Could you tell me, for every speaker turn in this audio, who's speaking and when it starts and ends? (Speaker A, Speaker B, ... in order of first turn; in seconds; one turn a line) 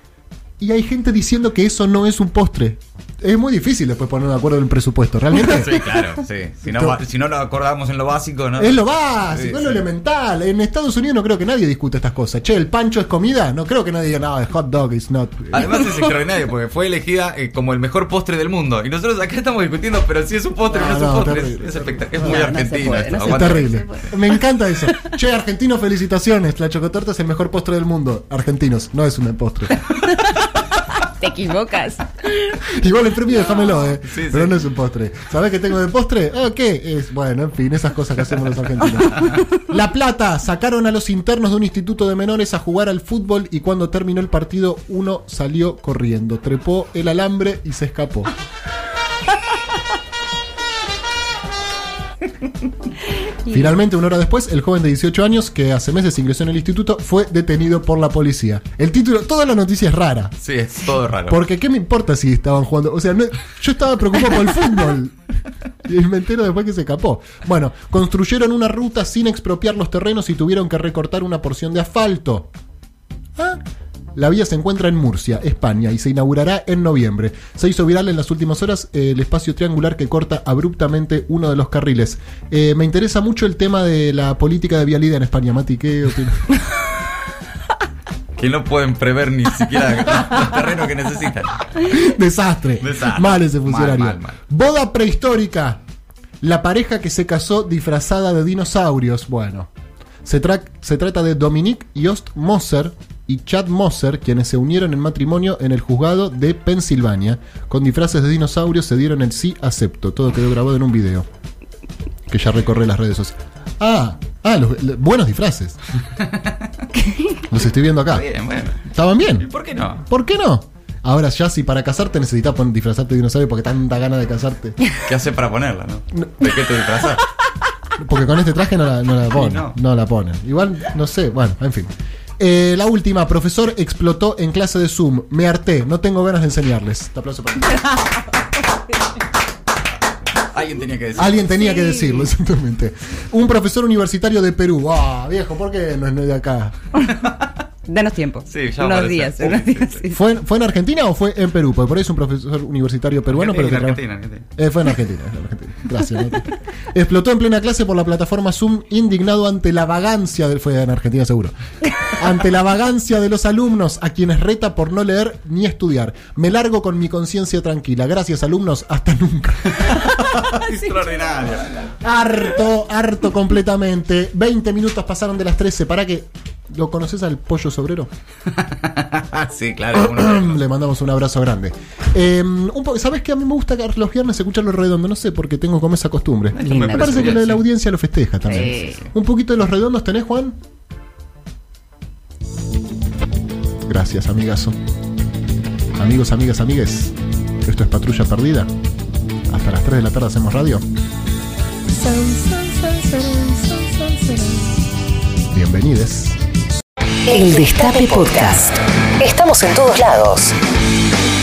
Speaker A: 0.6-5.9
Speaker B: 5.3-9.8
Speaker A: 6.6-7.0
Speaker A: 8.6-15.9
Speaker B: 15.5-23.7
Speaker A: 20.7-22.2
Speaker C: 22.1-24.4
Speaker A: 23.3-29.8
Speaker C: 30.0-32.7
Speaker A: 32.6-48.3
Speaker C: 33.4-33.8
Speaker B: 34.0-34.6
Speaker A: 53.5-60.3
Speaker B: 60.4-61.4
Speaker A: 61.3-65.2
Speaker A: 65.8-72.5
Speaker A: 74.1-86.5
Speaker B: 88.4-91.7
Speaker A: 91.8-95.8
Speaker B: 92.8-94.3
Speaker A: 96.4-99.7
Speaker A: 100.2-111.2
Speaker A: 112.3-115.8
Speaker B: 116.2-116.6
Speaker C: 116.9-117.5
Speaker A: 117.5-118.2
Speaker B: 118.1-118.8
Speaker A: 118.8-119.5
Speaker B: 119.4-120.0
Speaker A: 120.0-124.8
Speaker B: 125.0-127.3
Speaker A: 126.2-126.5
Speaker A: 128.0-137.9
Speaker B: 129.3-129.8
Speaker C: 137.8-138.2
Speaker B: 140.4-141.5
Speaker A: 141.2-146.8
Speaker C: 141.5-142.3
Speaker C: 147.9-150.2
Speaker B: 148.5-150.0
Speaker A: 150.1-154.0
Speaker B: 153.3-154.5
Speaker A: 154.6-170.4
Speaker B: 169.8-171.9
Speaker A: 172.0-178.1
Speaker B: 178.5-180.6
Speaker A: 179.9-190.6
Speaker B: 186.5-187.6
Speaker C: 186.6-187.4
Speaker C: 188.4-189.0
Speaker A: 193.9-194.8
Speaker A: 195.9-198.7
Speaker A: 199.5-200.8
Speaker C: 202.0-204.5
Speaker A: 205.5-206.4
Speaker D: 207.3-210.5
Speaker C: 207.3-208.7